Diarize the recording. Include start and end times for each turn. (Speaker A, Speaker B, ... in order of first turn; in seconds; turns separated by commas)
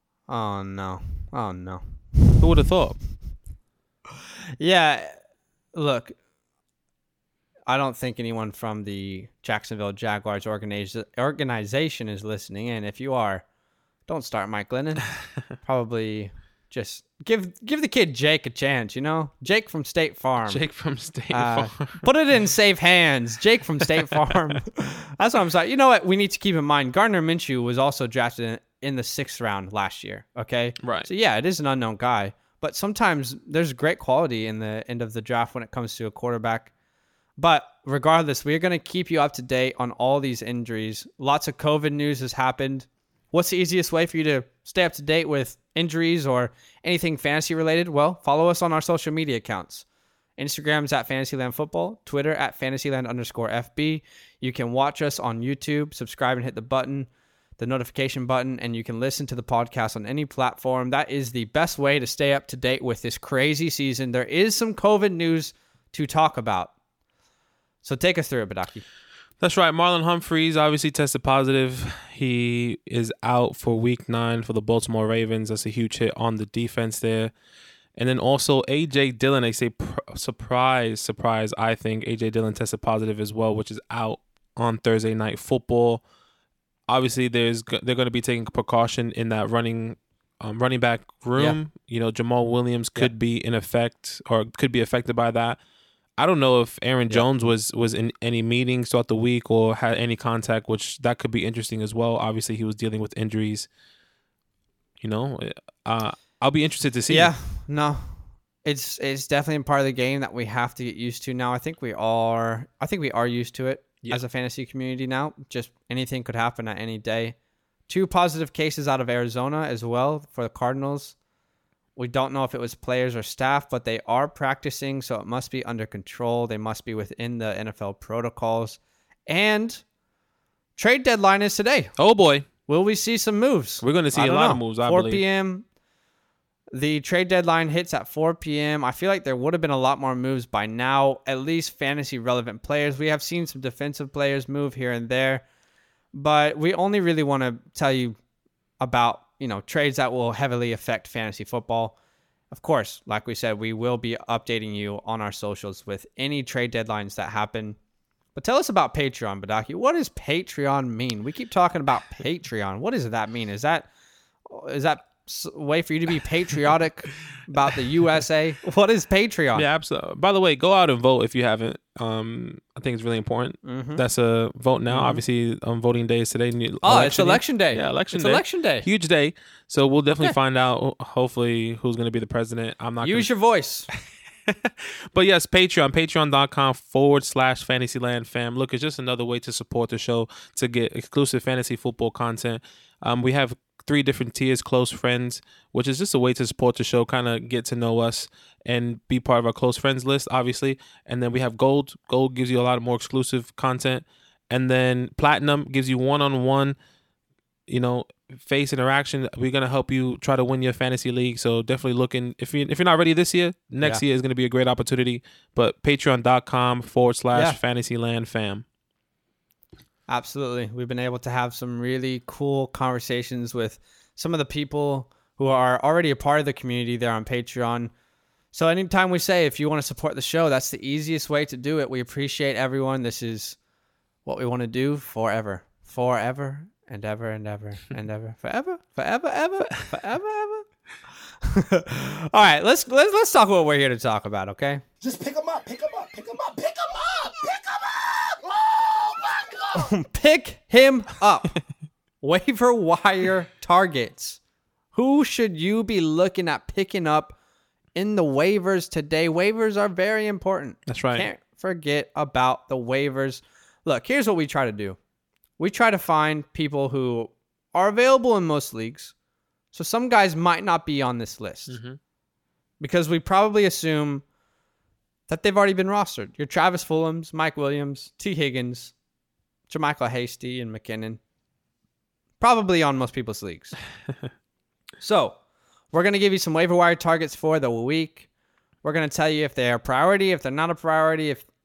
Speaker A: 0.3-1.8, Speaker B: 2.4-3.0, Speaker A: 4.6-5.1, Speaker A: 5.7-6.2, Speaker A: 7.7-13.4, Speaker A: 14.1-20.6, Speaker B: 20.4-22.0, Speaker A: 21.3-36.7, Speaker B: 30.8-31.1, Speaker A: 37.4-49.8, Speaker A: 50.4-66.7, Speaker A: 67.8-68.8, Speaker B: 69.4-77.3, Speaker B: 78.0-86.0, Speaker B: 86.9-95.6, Speaker B: 96.2-103.7, Speaker B: 105.0-107.3, Speaker A: 107.1-117.3, Speaker A: 117.9-121.2, Speaker A: 122.0-129.8, Speaker A: 130.8-131.9, Speaker B: 132.0-132.5, Speaker A: 132.7-135.6, Speaker B: 133.8-135.2, Speaker A: 136.7-145.4, Speaker A: 146.1-148.2, Speaker A: 148.8-151.9, Speaker A: 152.5-157.8, Speaker A: 158.3-163.9, Speaker A: 164.5-169.6, Speaker B: 169.5-183.3, Speaker A: 173.6-174.0, Speaker A: 174.9-175.2, Speaker A: 176.8-178.9, Speaker A: 183.0-183.9, Speaker B: 184.5-206.8, Speaker B: 207.7-218.6, Speaker A: 217.3-217.6, Speaker A: 220.1-227.9, Speaker A: 228.5-233.6, Speaker A: 234.2-240.7, Speaker A: 241.4-244.8, Speaker C: 245.0-249.9, Speaker A: 249.8-251.5, Speaker A: 252.2-254.4, Speaker A: 254.9-257.4, Speaker A: 257.9-265.0, Speaker B: 260.9-261.3, Speaker A: 265.6-269.1, Speaker A: 269.7-271.8, Speaker B: 271.7-272.0, Speaker A: 272.8-274.2, Speaker A: 275.3-278.9, Speaker A: 279.7-281.2, Speaker A: 282.4-283.8, Speaker A: 285.0-285.4, Speaker A: 285.9-288.3, Speaker A: 288.8-291.4